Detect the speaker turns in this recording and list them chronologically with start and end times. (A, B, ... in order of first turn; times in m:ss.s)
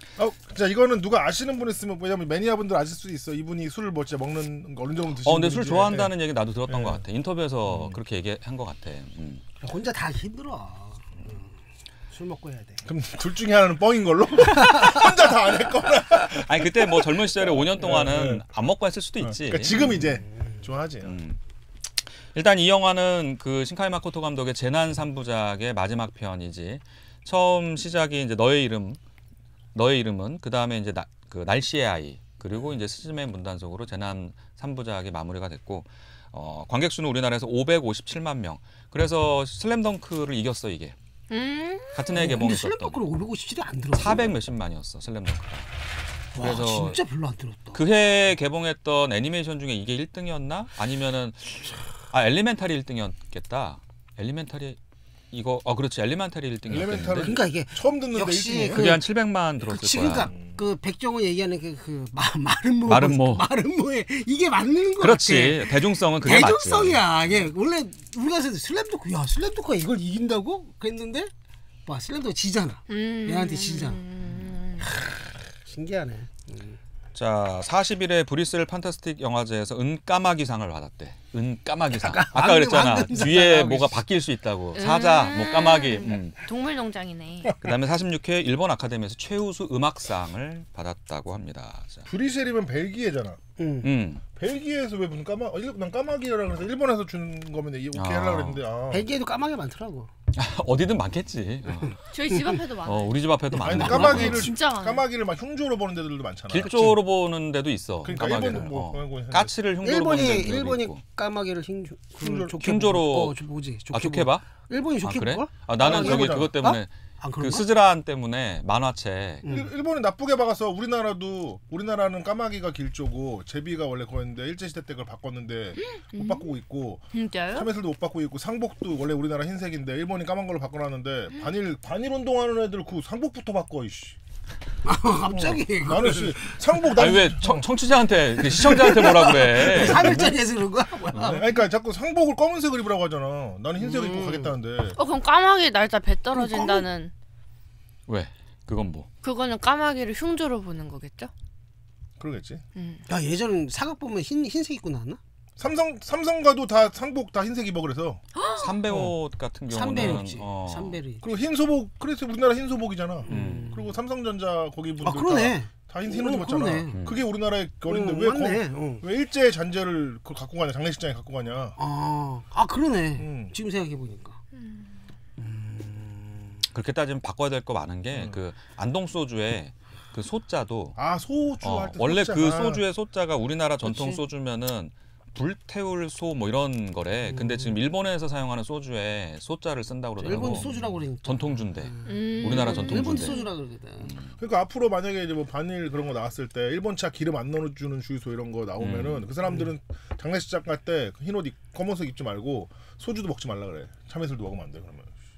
0:00.2-0:06.2 A
0:05.2-0:09.4 B
0:06.7-0:07.0 A
0:07.7-0:08.0 A
0:09.6-0:11.6 C
0:12.1-0:12.9 C
0:12.8-0:18.4 A
0:16.2-0:20.0 B
0:19.2-0:21.2 A
0:21.0-0:21.4 B
0:22.3-0:29.0 B
0:29.7-0:40.9 B
0:41.3-0:42.2 D
0:41.9-0:43.0 B
0:42.1-0:44.3 C
0:43.9-0:45.7 B
0:46.3-0:47.8 C
0:46.4-0:47.0 B
0:47.7-0:54.8 B
0:55.3-0:57.4 B
0:56.7-0:59.0 A
0:57.2-0:59.0 C
0:58.7-1:00.3 B
0:59.6-1:11.3 C
1:00.3-1:00.6 A
1:02.9-1:03.4 B
1:05.0-1:07.0 B
1:11.9-1:14.0 C
1:12.9-1:14.9 D
1:14.8-1:16.8 C
1:17.1-1:26.4 B
1:21.9-1:24.0 C
1:24.8-1:27.6 D
1:27.6-1:32.1 B
1:32.1-1:33.4 A
1:33.6-1:33.9 C
1:33.8-1:34.2 B
1:34.3-1:39.1 A
1:37.9-1:38.6 B
1:38.9-1:40.1 C
1:40.3-1:42.0 B
1:42.1-1:43.2 D
1:42.8-1:44.5 B
1:43.5-1:44.4 C
1:43.6-1:47.0 A
1:43.8-1:45.1 D
1:46.5-1:51.0 B
1:46.6-1:47.0 C
1:48.0-1:49.6 A
1:49.8-1:57.7 C
1:52.2-1:52.6 A
1:52.6-1:53.4 B
1:53.9-1:54.5 B
1:55.0-1:59.4 B
1:55.8-1:56.5 A
1:59.4-1:59.7 C
1:59.4-2:14.2 A
2:05.8-2:06.5 D
2:07.1-2:07.7 D
2:14.8-2:16.7 C
2:15.3-2:17.7 A
2:16.9-2:20.4 B
2:18.5-2:21.6 C
2:18.5-2:20.3 A
2:21.1-2:21.4 B
2:21.2-2:25.0 A
2:23.8-2:24.6 C
2:25.0-2:27.1 D
2:26.3-2:26.9 C
2:28.1-2:29.1 B
2:29.2-2:31.3 D
2:32.2-2:32.6 A
2:32.8-2:33.0 D
2:33.1-2:35.2 C
2:35.6-2:38.2 A
2:38.3-2:38.7 D
2:38.6-2:41.0 B
2:39.7-2:41.2 C
2:41.2-2:51.8 A
2:43.2-2:44.0 C
2:43.3-2:43.7 B
2:45.0-2:47.0 C
2:46.9-2:47.2 B
2:47.9-2:49.0 C
2:51.8-2:54.4 C
2:53.2-2:53.5 A
2:54.5-2:55.0 D
2:55.4-2:56.6 C
2:56.7-3:01.0 B
2:58.1-2:58.4 A
3:01.0-3:02.8 A
3:01.6-3:13.4 B
3:03.8-3:04.2 C
3:07.3-3:07.8 C
3:10.2-3:14.1 C
3:10.4-3:10.9 A
3:12.1-3:13.5 D
3:14.0-3:14.3 B
3:14.4-3:25.1 A
3:18.8-3:19.3 B